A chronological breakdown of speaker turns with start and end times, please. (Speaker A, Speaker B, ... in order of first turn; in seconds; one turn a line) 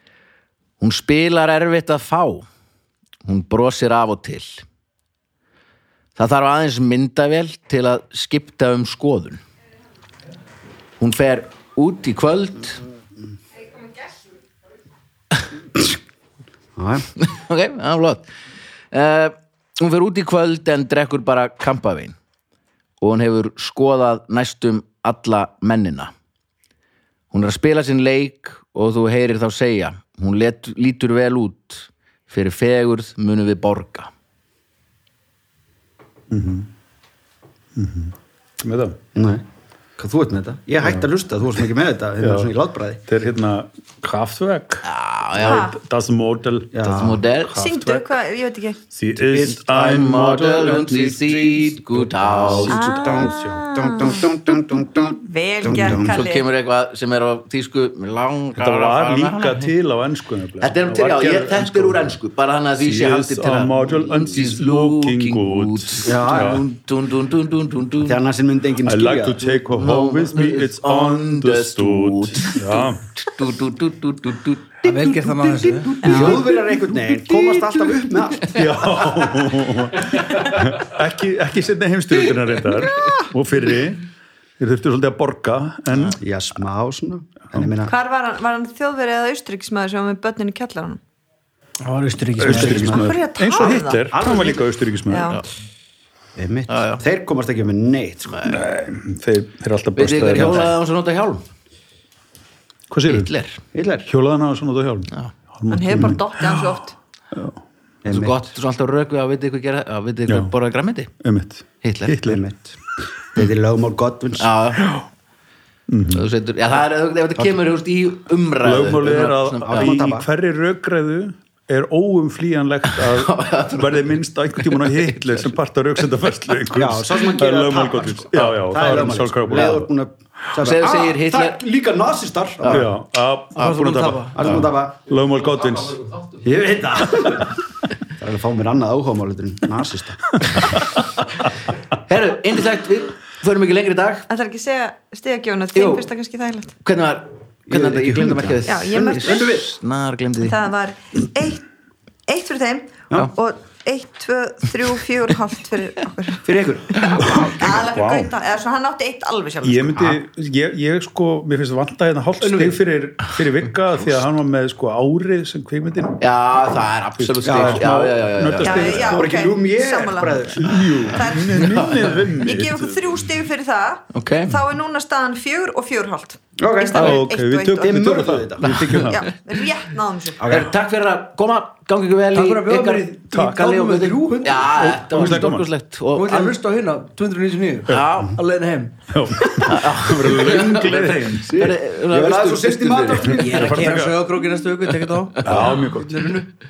Speaker A: 0.8-2.5
Speaker A: 3.2-4.6
Speaker A: 6.2-9.4
Speaker A: 11.0-12.8
Speaker B: 16.8-17.1
Speaker A: 17.1-18.3
Speaker A: 18.9-22.1
Speaker A: 23.0-26.1
Speaker A: 27.3-34.1
Speaker C: 36.3-36.7
Speaker C: 37.8-39.0
Speaker B: 39.1-39.4
Speaker B: 40.0-43.0
Speaker C: 42.2-42.5
Speaker C: 43.1-44.9
Speaker A: 44.8-45.7
Speaker C: 45.4-48.0
Speaker D: 45.4-45.8
Speaker B: 46.7-47.2
Speaker A: 47.0-47.6
Speaker D: 47.5-48.8
Speaker C: 48.9-53.3
Speaker B: 49.3-50.0
Speaker A: 49.7-52.9
Speaker B: 52.3-56.2
Speaker D: 52.7-56.5
Speaker A: 55.8-59.7
Speaker C: 58.6-62.1
Speaker A: 60.6-68.2
Speaker C: 62.8-66.7
Speaker B: 66.0-66.6
Speaker B: 68.0-69.6
Speaker C: 68.8-73.1
Speaker A: 69.7-78.6
Speaker E: 74.8-76.0
Speaker D: 76.0-76.3
Speaker B: 76.0-79.2
Speaker C: 78.5-84.1
Speaker C: 84.6-86.2
Speaker B: 86.2-87.9
Speaker D: 87.8-91.0
Speaker E: 91.8-93.0
Speaker C: 92.4-95.4
Speaker B: 92.5-93.0
Speaker D: 92.8-94.1
Speaker B: 94.1-94.6
Speaker D: 95.1-95.4
Speaker B: 96.4-98.4
Speaker A: 96.7-97.0
Speaker A: 98.3-98.6
Speaker C: 98.5-100.8
Speaker A: 100.0-101.5
Speaker C: 102.9-103.3
Speaker A: 103.1-103.6
Speaker B: 103.7-104.1
Speaker C: 104.1-106.7
Speaker D: 105.7-107.0
Speaker C: 107.3-107.6
Speaker B: 108.0-108.5
Speaker A: 108.1-111.1
Speaker C: 110.3-110.5
Speaker C: 111.2-112.4
Speaker A: 111.8-112.2
Speaker B: 112.3-112.8
Speaker B: 113.3-114.5
Speaker A: 114.4-115.0
Speaker C: 114.8-115.0
Speaker C: 115.9-116.3
Speaker A: 116.1-120.0
Speaker C: 118.6-129.9
Speaker B: 119.6-120.3
Speaker A: 123.0-125.1
Speaker B: 126.7-132.9
Speaker A: 130.6-131.6
Speaker A: 132.6-132.9
Speaker C: 132.7-136.2
Speaker B: 133.6-135.0
Speaker E: 133.8-134.3
Speaker B: 136.4-137.5
Speaker B: 138.2-140.4
Speaker A: 142.1-144.3
Speaker D: 144.3-146.7
Speaker A: 145.8-146.1
Speaker A: 146.8-150.6
Speaker B: 147.7-149.7
Speaker D: 148.7-149.6
Speaker D: 150.4-151.6
Speaker D: 152.3-160.2
Speaker B: 156.4-157.7
Speaker C: 157.8-158.3
Speaker C: 159.6-166.2
Speaker A: 162.4-162.8
Speaker A: 166.2-169.2
Speaker C: 167.2-169.2
Speaker B: 167.4-167.9
Speaker D: 168.6-170.6
Speaker B: 169.1-171.2
Speaker C: 170.6-173.2
Speaker D: 171.2-177.9
Speaker A: 171.6-172.4
Speaker A: 174.1-174.6
Speaker B: 176.6-178.8
Speaker C: 176.9-179.2
Speaker A: 178.7-179.3
Speaker D: 179.1-180.4
Speaker B: 180.4-180.7
Speaker A: 180.5-186.6
Speaker E: 182.3-185.3
Speaker C: 184.7-185.7
Speaker E: 186.1-189.4
Speaker A: 187.9-188.4
Speaker C: 189.1-191.8
Speaker A: 189.7-194.0
Speaker B: 191.6-194.0
Speaker E: 193.4-196.4
Speaker C: 193.5-194.3
Speaker C: 195.4-196.3
Speaker A: 195.4-196.4